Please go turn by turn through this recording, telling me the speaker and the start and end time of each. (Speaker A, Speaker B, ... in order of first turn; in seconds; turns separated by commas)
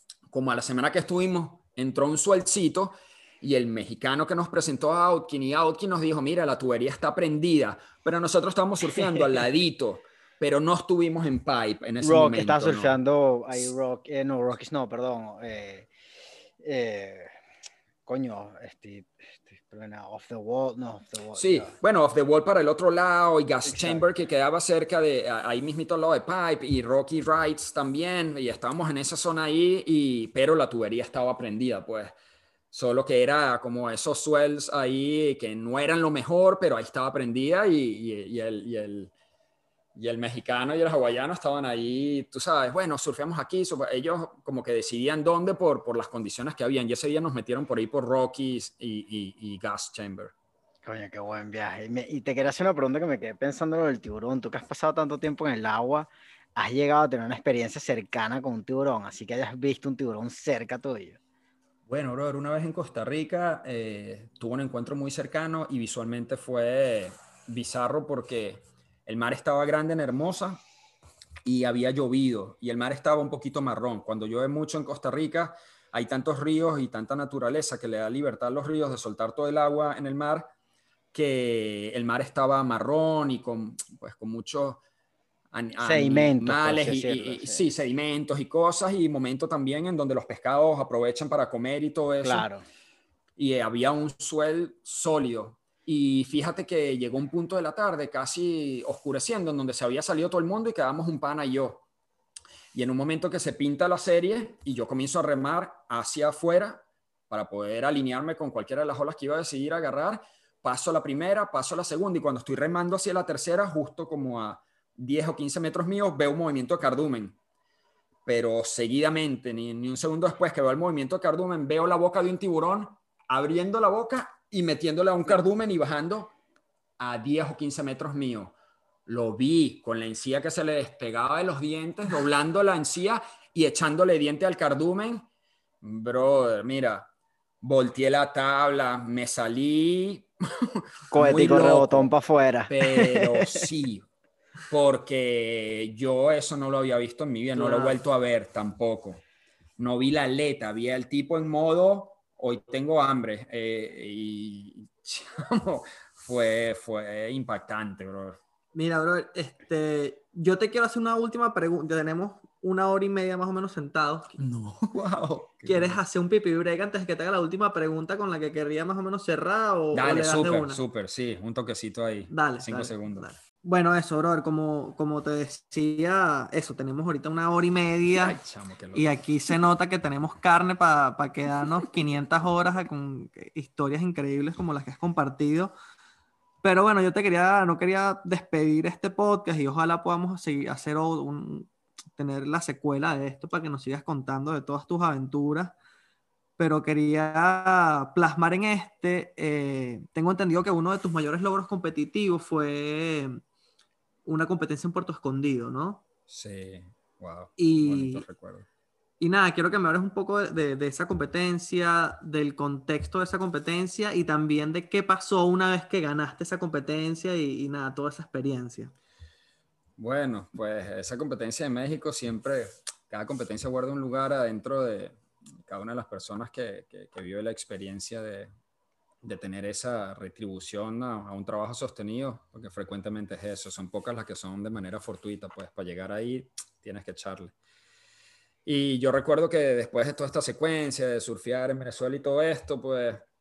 Speaker A: 0.3-13.0, Speaker B: 12.0-15.9, Speaker B: 16.6-17.3, Speaker B: 18.1-21.8, Speaker A: 21.3-32.1, Speaker B: 23.6-24.0, Speaker A: 32.7-39.1, Speaker A: 40.0-50.3, Speaker B: 50.8-61.2, Speaker A: 61.9-70.6, Speaker A: 71.4-80.5, Speaker A: 81.1-84.8, Speaker A: 85.5-92.5, Speaker B: 85.8-87.6, Speaker B: 92.2-92.6, Speaker A: 93.4-101.8, Speaker A: 102.7-117.4, Speaker A: 118.3-126.3, Speaker A: 127.0-128.5, Speaker A: 129.1-135.3, Speaker A: 135.8-137.1, Speaker A: 137.6-142.1, Speaker B: 141.1-143.7, Speaker A: 142.7-144.1, Speaker A: 144.7-149.2, Speaker C: 147.6-148.0, Speaker A: 149.8-158.4, Speaker C: 158.7-164.4, Speaker A: 164.4-166.0, Speaker C: 165.7-170.8, Speaker A: 169.9-173.3, Speaker C: 172.3-178.4, Speaker A: 178.1-179.1, Speaker C: 178.9-185.7, Speaker C: 186.6-195.8, Speaker C: 196.6-203.4, Speaker C: 204.3-206.0, Speaker A: 206.3-208.7, Speaker C: 207.6-208.2, Speaker C: 209.2-218.9, Speaker A: 220.0-228.5, Speaker A: 229.2-237.5, Speaker A: 238.7-243.3